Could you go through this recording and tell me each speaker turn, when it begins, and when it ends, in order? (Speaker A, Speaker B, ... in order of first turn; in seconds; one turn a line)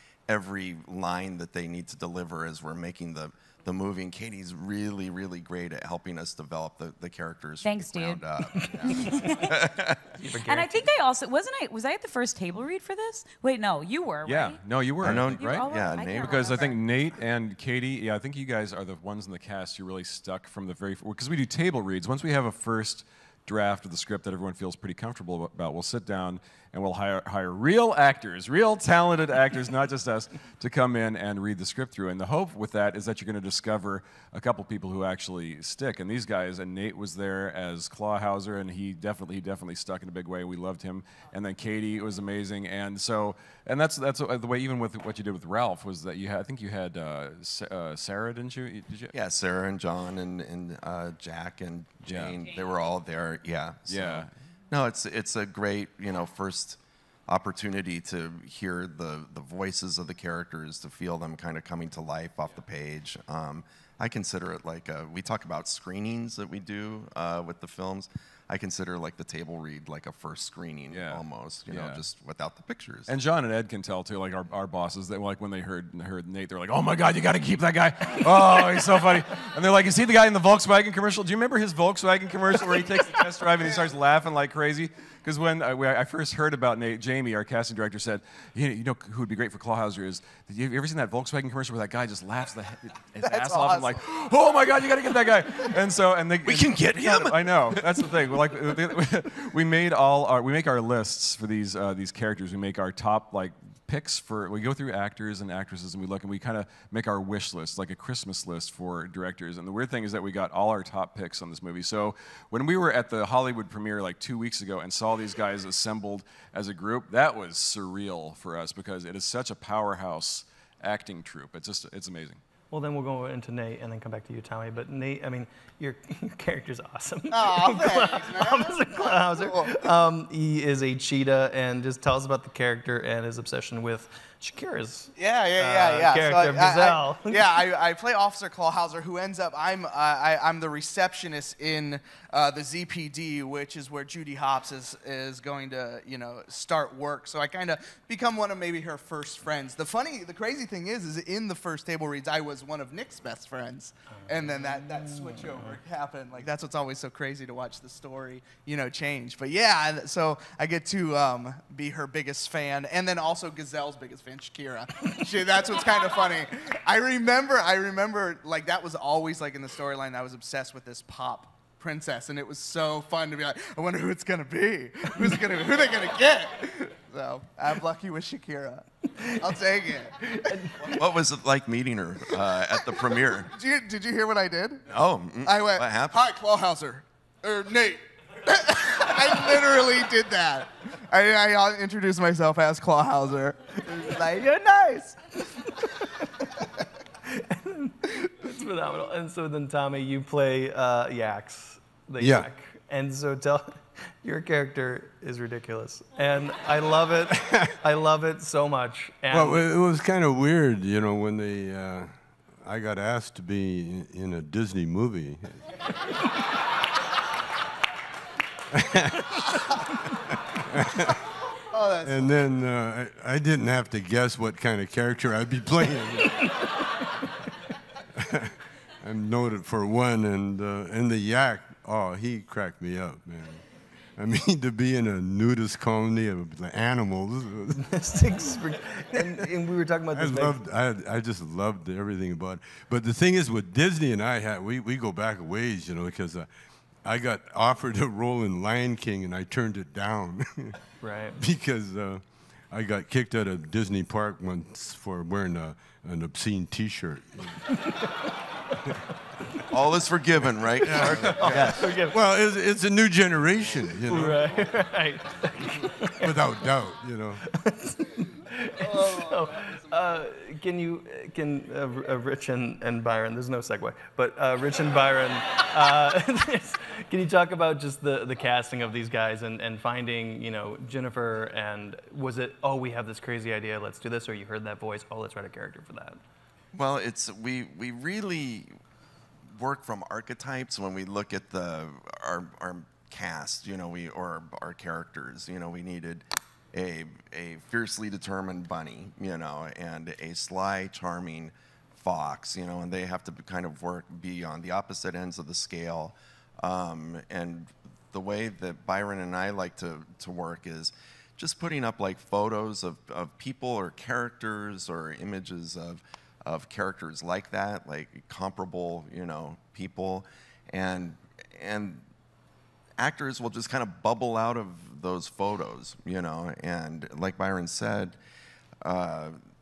Speaker A: 0.3-10.2
Speaker B: 7.6-8.2
Speaker C: 8.5-9.3
Speaker B: 8.8-9.8
Speaker C: 10.2-10.8
Speaker B: 10.4-16.8
Speaker D: 14.2-15.7
Speaker A: 15.0-16.7
Speaker D: 16.2-49.1
Speaker A: 49.1-73.1
Speaker D: 52.0-52.4
Speaker D: 53.9-54.3
Speaker D: 70.9-72.0
Speaker D: 73.1-122.4
Speaker E: 93.2-94.0
Speaker A: 96.5-98.2
Speaker C: 122.7-137.6
Speaker E: 127.3-129.9
Speaker E: 135.2-181.0
Speaker C: 154.4-155.7
Speaker A: 180.9-183.5
Speaker E: 182.7-184.8
Speaker A: 184.9-186.2
Speaker E: 185.4-195.3
Speaker C: 197.3-209.7
Speaker F: 202.2-202.5
Speaker F: 207.3-207.8
Speaker F: 209.3-215.7
Speaker F: 218.7-219.5
Speaker F: 220.3-221.2
Speaker E: 221.7-222.4
Speaker F: 222.1-226.5
Speaker F: 228.2-233.6
Speaker F: 234.2-238.1
Speaker C: 237.8-240.6
Speaker F: 240.1-246.5
Speaker F: 247.0-250.8
Speaker C: 251.0-251.4
Speaker F: 251.4-257.6
Speaker A: 259.7-261.9
Speaker F: 260.9-264.6
Speaker C: 260.9-262.2
Speaker C: 264.1-266.4
Speaker F: 266.2-267.4
Speaker C: 267.4-286.2
Speaker A: 286.7-288.7
Speaker A: 289.5-322.0
Speaker A: 323.0-328.2
Speaker A: 328.8-329.4